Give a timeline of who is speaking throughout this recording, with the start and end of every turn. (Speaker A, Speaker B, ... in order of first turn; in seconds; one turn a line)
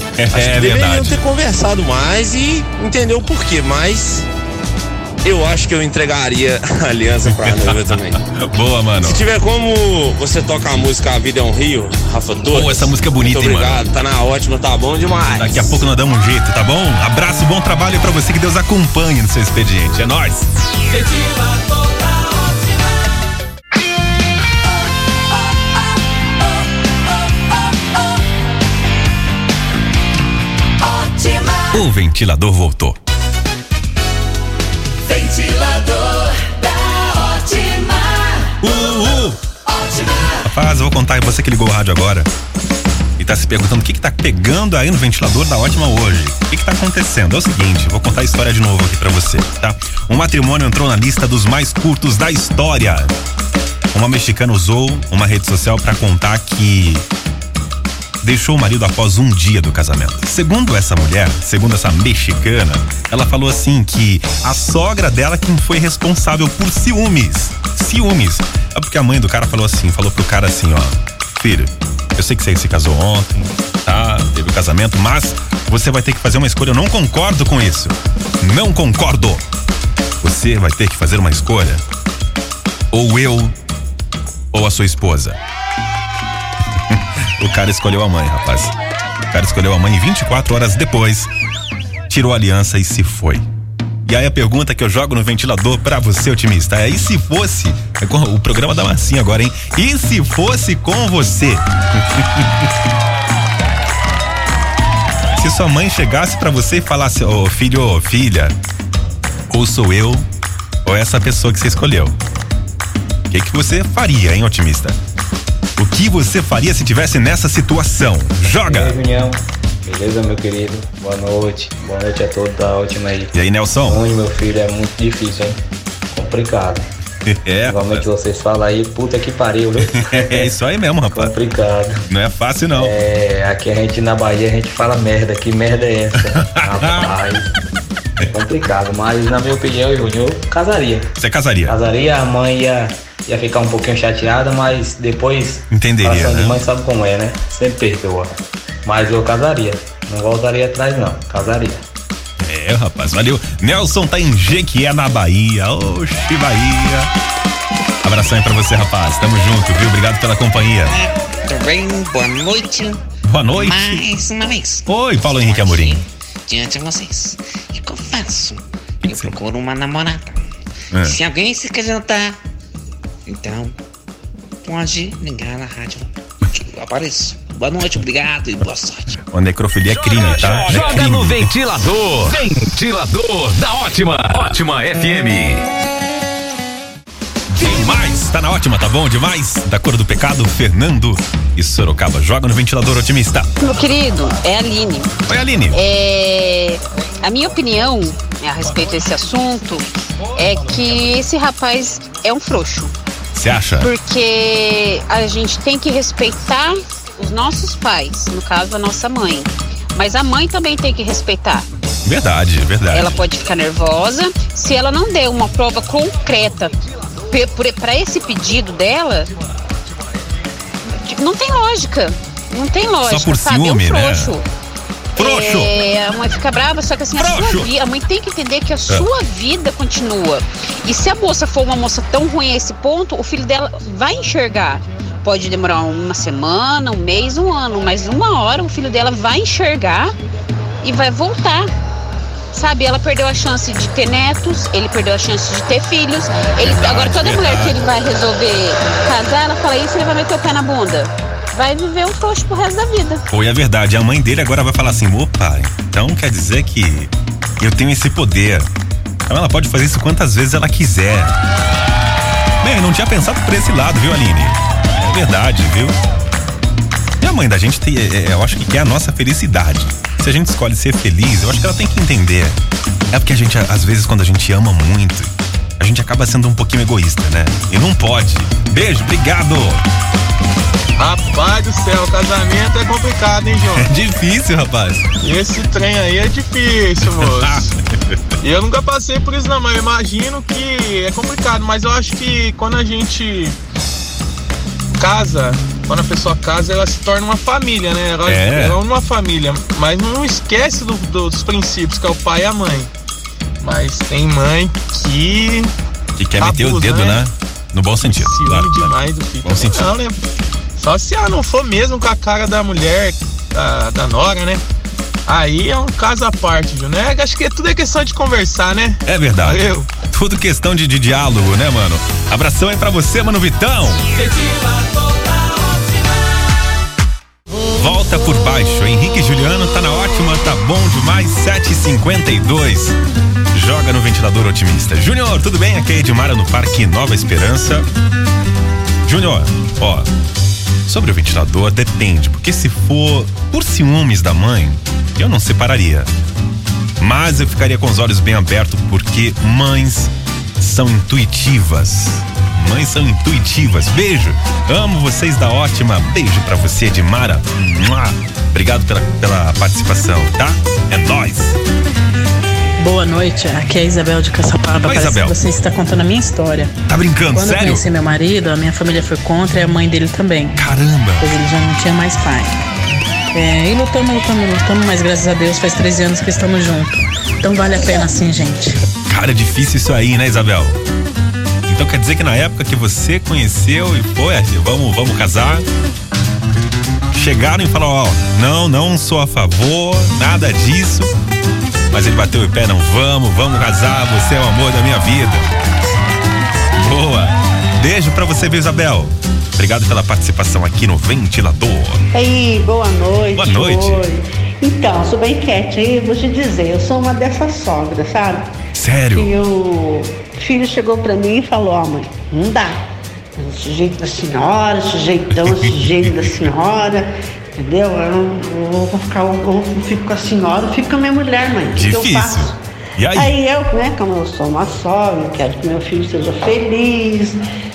Speaker A: 0.2-1.2
Speaker B: 0.3-4.3
Speaker B: 5.2-8.2
Speaker A: 7.3-9.3
Speaker B: 9.0-15.8
Speaker A: 12.5-13.8
Speaker A: 15.3-20.5
Speaker A: 31.7-33.0
Speaker A: 38.6-39.4
Speaker A: 40.4-42.3
Speaker A: 43.2-53.1
Speaker A: 53.9-57.1
Speaker A: 58.2-79.5
Speaker A: 80.2-81.8
Speaker A: 82.9-83.5
Speaker A: 84.5-85.4
Speaker A: 86.9-88.8
Speaker A: 89.3-91.3
Speaker A: 92.1-93.5
Speaker A: 94.0-102.7
Speaker A: 105.3-108.6
Speaker A: 109.5-110.3
Speaker A: 110.8-112.2
Speaker A: 113.3-115.0
Speaker A: 115.8-119.0
Speaker C: 118.7-125.6
Speaker A: 123.3-124.0
Speaker C: 126.1-126.9
Speaker A: 127.3-128.1
Speaker C: 127.7-130.6
Speaker A: 129.8-131.3
Speaker C: 131.1-132.0
Speaker A: 132.1-133.0
Speaker C: 132.7-137.5
Speaker A: 136.3-137.2
Speaker C: 138.3-141.1
Speaker A: 141.2-141.8
Speaker C: 141.7-151.8
Speaker A: 145.7-146.6
Speaker A: 152.4-157.1
Speaker A: 158.0-161.0
Speaker D: 160.8-170.4
Speaker A: 163.2-164.1
Speaker A: 164.9-166.1
Speaker A: 169.1-169.3
Speaker A: 170.9-171.2
Speaker D: 171.0-172.4
Speaker D: 173.3-173.8
Speaker D: 174.6-179.2
Speaker A: 179.3-181.5
Speaker E: 179.9-185.7
Speaker A: 187.5-193.5
Speaker F: 193.6-195.1
Speaker A: 195.3-195.8
Speaker F: 195.7-202.9
Speaker A: 203.3-203.9
Speaker F: 203.8-211.7
Speaker A: 212.1-213.2
Speaker F: 212.9-216.7
Speaker F: 217.3-219.3
Speaker F: 220.9-224.4
Speaker A: 223.0-224.4
Speaker F: 225.2-240.1
Speaker A: 225.2-225.7
Speaker A: 227.2-227.7
Speaker F: 240.8-241.7
Speaker F: 242.5-253.2
Speaker A: 246.6-247.8
Speaker A: 253.3-258.7
Speaker A: 259.3-261.4
Speaker A: 262.6-266.0
Speaker A: 267.2-272.6
Speaker A: 273.1-279.8
Speaker G: 281.0-283.9
Speaker A: 283.8-285.0
Speaker G: 285.2-287.7
Speaker A: 287.0-288.2
Speaker G: 288.4-293.6
Speaker G: 295.0-302.9
Speaker A: 298.2-298.8
Speaker G: 303.6-305.7
Speaker A: 306.2-309.9
Speaker G: 306.4-307.2
Speaker G: 308.0-310.2
Speaker G: 310.8-314.6
Speaker G: 315.3-319.9
Speaker A: 319.1-324.0
Speaker A: 327.7-333.0
Speaker A: 333.5-337.9
Speaker A: 339.1-340.1
Speaker A: 340.9-346.1
Speaker A: 347.0-361.6
Speaker H: 362.8-366.7
Speaker A: 364.8-365.4
Speaker A: 366.9-367.9
Speaker H: 367.3-370.6
Speaker A: 370.5-371.3
Speaker H: 371.2-372.6
Speaker H: 373.3-378.8
Speaker A: 379.1-380.8
Speaker A: 381.7-385.7
Speaker A: 387.1-391.1
Speaker A: 391.9-395.5
Speaker A: 396.8-402.0
Speaker I: 402.1-408.5
Speaker A: 403.4-404.1
Speaker A: 408.7-409.4
Speaker I: 409.1-412.8
Speaker I: 413.4-417.1
Speaker A: 415.4-416.3
Speaker I: 417.6-422.6
Speaker A: 421.7-423.4
Speaker I: 423.1-427.4